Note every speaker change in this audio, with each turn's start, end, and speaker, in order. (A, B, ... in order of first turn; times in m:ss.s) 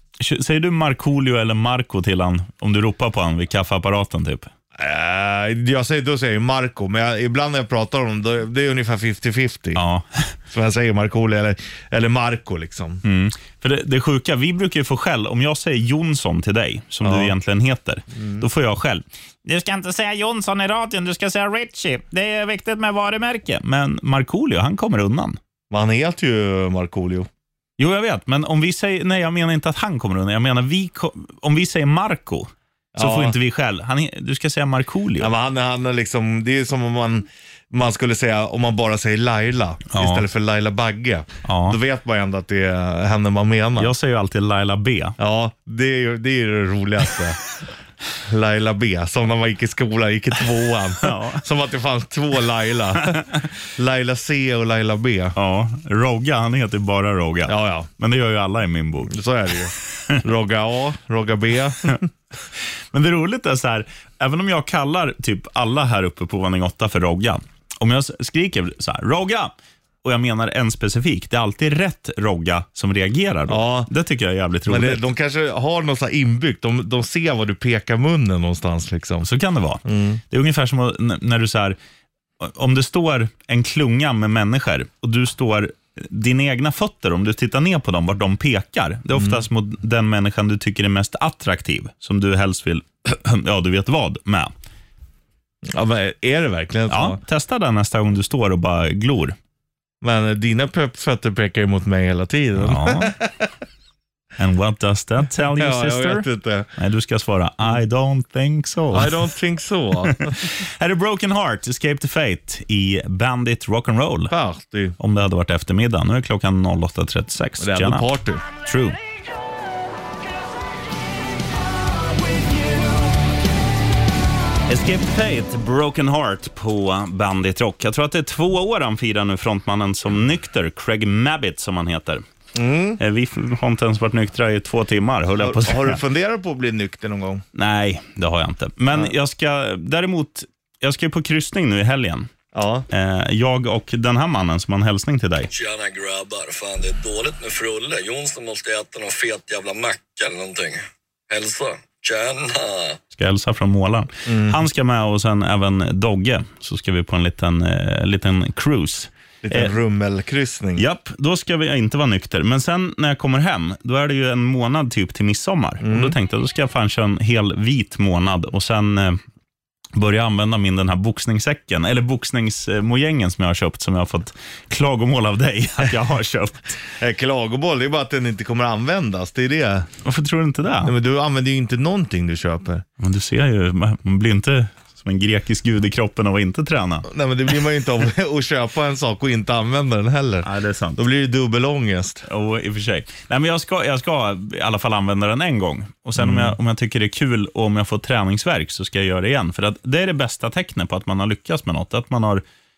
0:00.2-0:04.5 A
0:04.8-0:09.8 B
0:09.7-0:10.3 A
0:10.5-0:13.0 B
0:13.0-0:25.4 A
0:17.0-0:17.3 B
0:18.1-0:18.4 B
0:25.7-0:27.3 B
0:27.8-0:35.3 A
0:32.9-0:33.4 B
0:35.2-0:43.9 B
0:39.9-0:40.2 A
0:41.4-0:41.8 A
0:43.8-0:45.2 A
0:45.2-0:47.4 B
0:48.2-0:55.4 B
0:51.0-0:51.4 A
0:55.4-0:59.2 A
0:57.4-0:57.9 B
0:59.1-1:02.1 B
1:02.9-1:09.5 A
1:10.0-1:15.0 A
1:13.5-1:13.9 B
1:14.6-1:19.3 B
1:19.2-1:21.8 A
1:19.8-1:20.2 B
1:22.4-1:34.5 A
1:29.1-1:29.4 B
1:35.6-1:37.2 B
1:36.9-1:39.4 A
1:40.0-1:43.5 B
1:42.6-1:43.1 A
1:44.4-1:49.2 A
1:45.5-1:46.7 B
1:48.9-1:50.4 B
1:50.0-1:54.3 A
1:54.3-1:55.0 B
1:55.0-1:58.1 A
1:57.6-1:58.4 B
1:58.6-1:59.0 A
2:04.7-2:12.2 A
2:12.5-2:13.0 B
2:13.0-2:16.0 A
2:15.4-2:17.4 B
2:17.5-2:22.3 A
2:22.5-2:22.9 B
2:22.9-2:25.5 A
2:25.5-2:33.0 C
2:33.1-2:39.7 A
2:34.2-2:34.6 B
2:39.4-2:40.8 B
2:40.8-2:49.2 A
2:45.8-2:46.2 B
2:49.9-2:56.8 A
2:57.0-2:59.9 B
3:00.0-3:00.9 A
3:00.8-3:02.8 B
3:03.0-3:07.1 A
3:07.1-3:12.2 B
3:10.4-3:11.0 A
3:12.3-3:22.4 A
3:16.2-3:16.6 B